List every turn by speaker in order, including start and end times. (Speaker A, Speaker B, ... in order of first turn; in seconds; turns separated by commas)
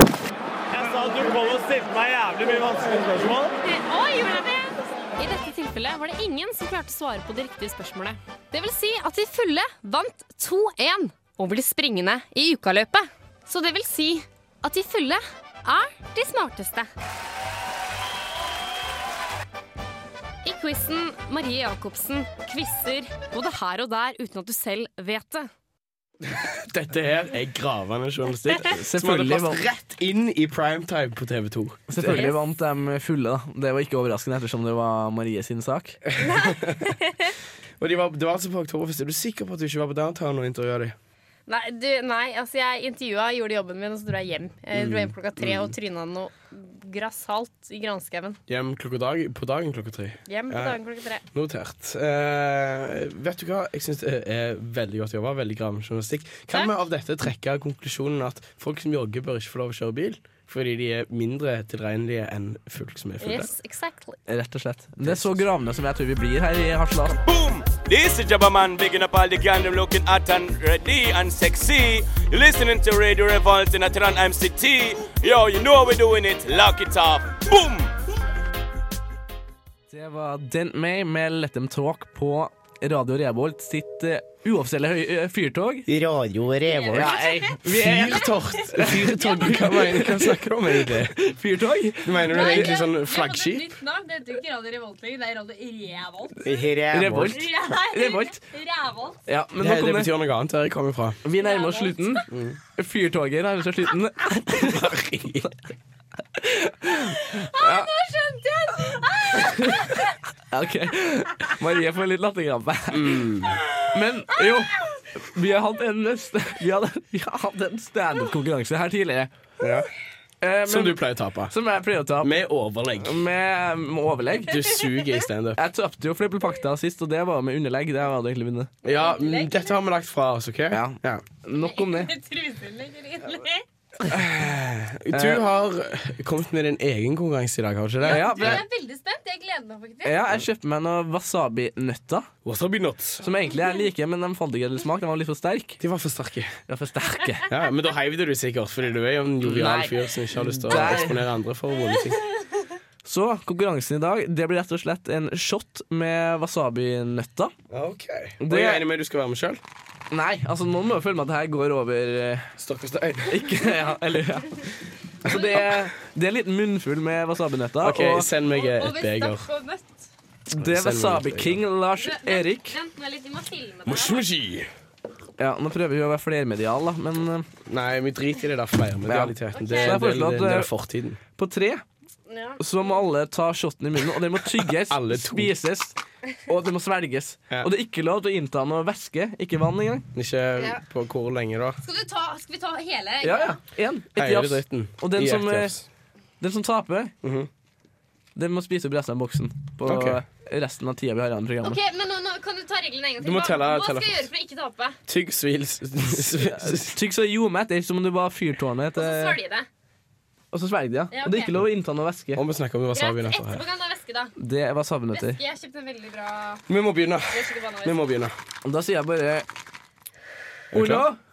Speaker A: 0.8-3.5, Speaker B: 3.6-16.9, Speaker B: 20.4-25.5, Speaker C: 26.2-32.3, Speaker D: 28.8-29.6, Speaker D: 31.9-36.0, Speaker B: 32.1-32.4, Speaker C: 36.1-36.9, Speaker B: 36.2-37.3, Speaker C: 37.8-40.9, Speaker B: 41.5-48.4, Speaker C: 44.7-45.7, Speaker C: 48.5-50.8, Speaker B: 50.3-51.2, Speaker C: 51.3-63.5, Speaker B: 63.2-64.2, Speaker D: 64.3-67.2, Speaker C: 65.0-65.4, Speaker E: 67.2-77.9, Speaker D: 79.9-85.9, Speaker A: 85.9-87.1, Speaker B: 86.7-87.6, Speaker D: 86.9-92.7, Speaker C: 87.6-91.2, Speaker C: 92.0-93.8, Speaker B: 92.3-96.4, Speaker A: 96.4-97.2, Speaker D: 96.9-98.4, Speaker B: 97.2-99.2, Speaker D: 99.3-100.1, Speaker C: 99.6-101.2, Speaker D: 101.2-104.9, Speaker B: 101.4-102.3, Speaker C: 102.3-102.6, Speaker C: 104.5-105.5, Speaker D: 106.3-107.9, Speaker B: 107.2-110.1, Speaker D: 109.3-113.3, Speaker C: 112.9-113.6, Speaker D: 113.8-119.3, Speaker C: 119.6-119.9, Speaker D: 120.4-122.3, Speaker C: 120.6-121.5, Speaker C: 122.2-123.2, Speaker D: 123.0-124.6, Speaker C: 124.4-125.6, Speaker D: 125.5-128.7, Speaker C: 128.8-131.2, Speaker B: 128.8-129.8, Speaker D: 130.7-132.1, Speaker B: 131.5-133.6, Speaker C: 134.1-138.6, Speaker D: 135.1-135.4, Speaker B: 138.0-140.3, Speaker D: 138.0-138.6, Speaker D: 140.0-142.3, Speaker C: 142.4-143.3, Speaker D: 143.2-145.8, Speaker C: 145.8-146.6, Speaker D: 146.7-147.5, Speaker C: 147.5-152.2, Speaker D: 149.4-151.2, Speaker D: 153.0-157.5, Speaker C: 157.7-159.6, Speaker D: 158.4-158.8, Speaker D: 160.1-162.5, Speaker C: 162.6-163.5, Speaker D: 163.3-164.6, Speaker D: 165.2-168.3, Speaker C: 167.8-169.4, Speaker B: 168.5-170.1, Speaker D: 170.5-172.8, Speaker C: 170.5-171.6, Speaker B: 172.0-174.2, Speaker C: 173.8-174.7, Speaker D: 175.4-177.5, Speaker C: 177.7-181.2, Speaker D: 179.1-180.7, Speaker B: 179.5-180.0, Speaker D: 181.3-181.8, Speaker B: 182.3-182.8, Speaker D: 182.6-190.1, Speaker C: 184.5-185.5, Speaker C: 190.1-191.8, Speaker B: 191.8-193.6, Speaker D: 193.2-195.8, Speaker C: 194.2-195.8, Speaker D: 196.4-197.1, Speaker C: 197.2-197.5, Speaker D: 198.3-201.8, Speaker C: 199.8-200.2, Speaker B: 201.6-205.0, Speaker C: 203.2-204.3, Speaker C: 205.1-207.0, Speaker D: 206.2-209.4, Speaker B: 208.9-209.7, Speaker D: 210.5-212.4, Speaker B: 211.1-211.5, Speaker C: 212.3-213.6, Speaker B: 212.9-214.3, Speaker D: 214.4-215.4, Speaker B: 215.1-216.6, Speaker C: 216.7-218.3, Speaker B: 217.3-218.0, Speaker D: 218.6-219.5, Speaker C: 220.7-221.1, Speaker D: 220.7-221.2